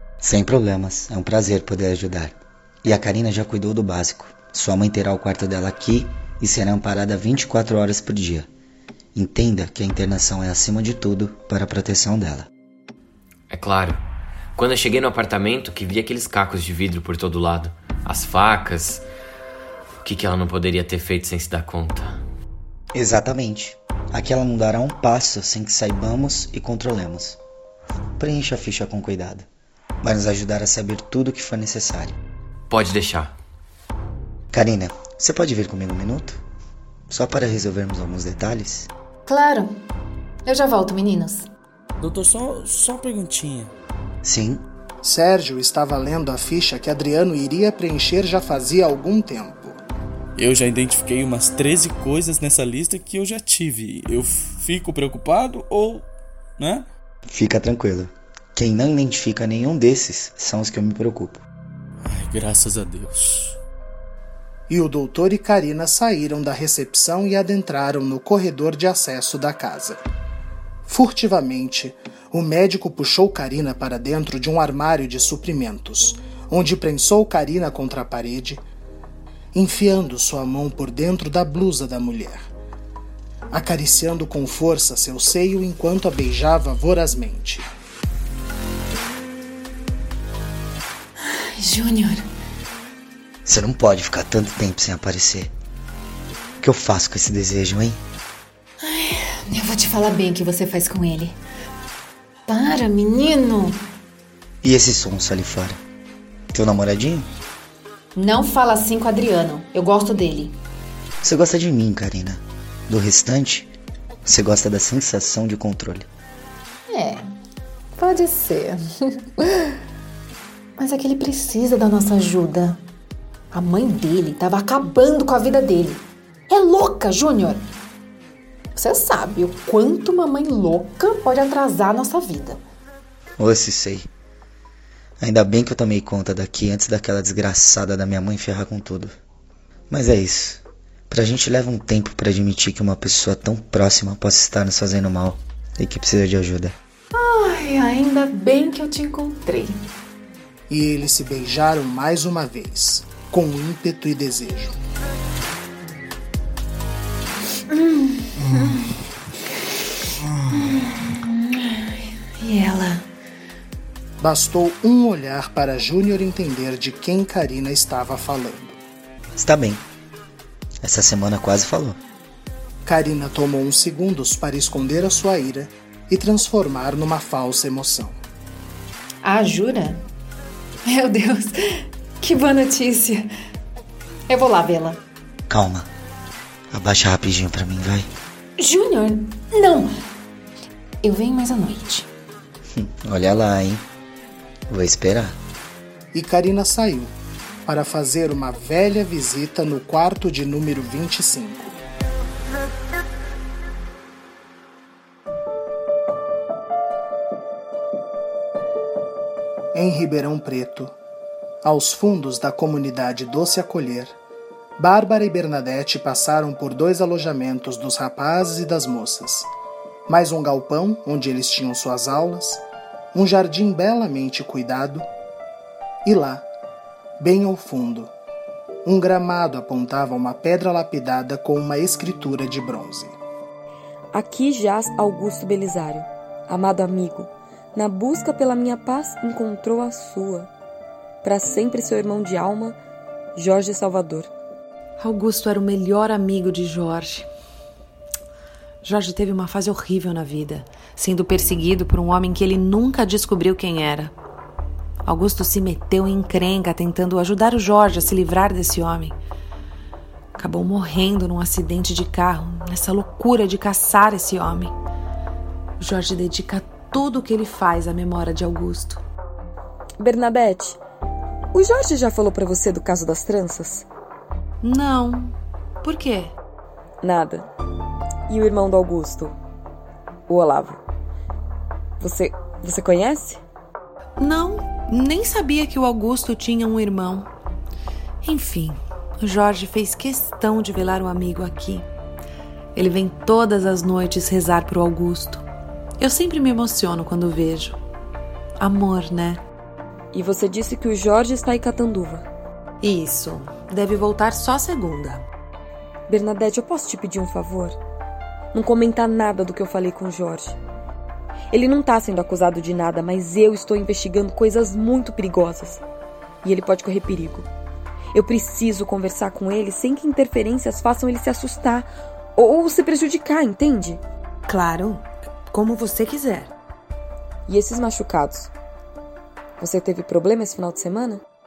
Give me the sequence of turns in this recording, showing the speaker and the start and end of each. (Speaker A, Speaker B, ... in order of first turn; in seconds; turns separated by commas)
Speaker A: 0.2-8.5, Speaker A: 9.1-12.5, Speaker B: 13.5-14.0, Speaker B: 14.6-19.0, Speaker B: 20.0-22.2, Speaker A: 22.9-27.4, Speaker A: 28.2-29.4, Speaker A: 30.0-32.2, Speaker B: 32.7-33.3, Speaker A: 34.5-36.4, Speaker A: 37.1-38.9, Speaker C: 39.2-39.8, Speaker C: 40.4-41.5, Speaker D: 42.0-43.7, Speaker A: 44.2-44.6, Speaker E: 45.0-49.8, Speaker D: 50.4-56.1, Speaker D: 56.6-56.9, Speaker A: 57.2-61.4, Speaker D: 62.0-63.6, Speaker E: 64.7-70.0, Speaker E: 70.8-78.6, Speaker E: 79.5-82.4, Speaker E: 83.5-87.7, Speaker C: 91.2-92.3, Speaker A: 93.5-95.5, Speaker A: 96.6-98.0, Speaker C: 98.8-101.4, Speaker C: 102.5-103.8, Speaker A: 104.6-105.8, Speaker A: 106.5-107.3, Speaker C: 108.1-110.6, Speaker A: 111.2-113.7, Speaker A: 114.2-116.1, Speaker C: 116.9-117.3, Speaker C: 118.0-119.8, Speaker C: 120.8-122.8, Speaker C: 123.5-127.7, Speaker C: 128.7-132.6, Speaker A: 133.4-134.1, Speaker A: 135.2-139.1, Speaker A: 139.9-146.7, Speaker C: 147.1-149.8, Speaker E: 150.7-154.8, Speaker C: 157.7-158.9, Speaker C: 160.4-163.1, Speaker E: 164.2-168.8, Speaker A: 169.3-169.8, Speaker A: 170.8-172.0, Speaker E: 172.8-178.2, Speaker C: 179.2-180.0, Speaker C: 180.8-183.3, Speaker C: 184.3-185.0, Speaker A: 185.5-185.9, Speaker A: 186.7-188.1, Speaker C: 188.6-189.9, Speaker C: 191.0-192.1, Speaker A: 192.7-193.8, Speaker A: 194.7-195.4, Speaker E: 196.1-197.1, Speaker E: 197.6-201.7, Speaker E: 209.7-210.9, Speaker E: 211.6-214.1, Speaker E: 214.8-219.5, Speaker E: 220.1-222.6, Speaker E: 223.1-225.1, Speaker E: 226.0-226.4, Speaker E: 227.2-228.1, Speaker E: 228.8-233.2, Speaker F: 234.1-240.5, Speaker F: 241.2-242.8, Speaker F: 243.3-244.3, Speaker G: 245.0-247.3, Speaker G: 248.8-254.1, Speaker G: 255.0-259.2, Speaker G: 260.4-264.7, Speaker G: 265.8-269.0, Speaker F: 270.0-270.8, Speaker F: 271.5-273.8, Speaker G: 274.6-276.3, Speaker F: 277.0-277.5, Speaker F: 278.3-279.4, Speaker F: 280.3-280.8, Speaker F: 282.0-283.4, Speaker G: 284.2-287.3, Speaker G: 288.2-291.9, Speaker G: 292.7-295.4, Speaker G: 296.0-297.8, Speaker G: 298.6-299.4, Speaker F: 300.1-302.2, Speaker G: 302.8-305.2, Speaker F: 306.1-307.8, Speaker F: 308.5-310.6, Speaker F: 311.5-315.8, Speaker F: 316.4-317.5, Speaker F: 318.1-324.0, Speaker G: 324.5-326.5, Speaker F: 327.5-328.5, Speaker F: 329.6-331.2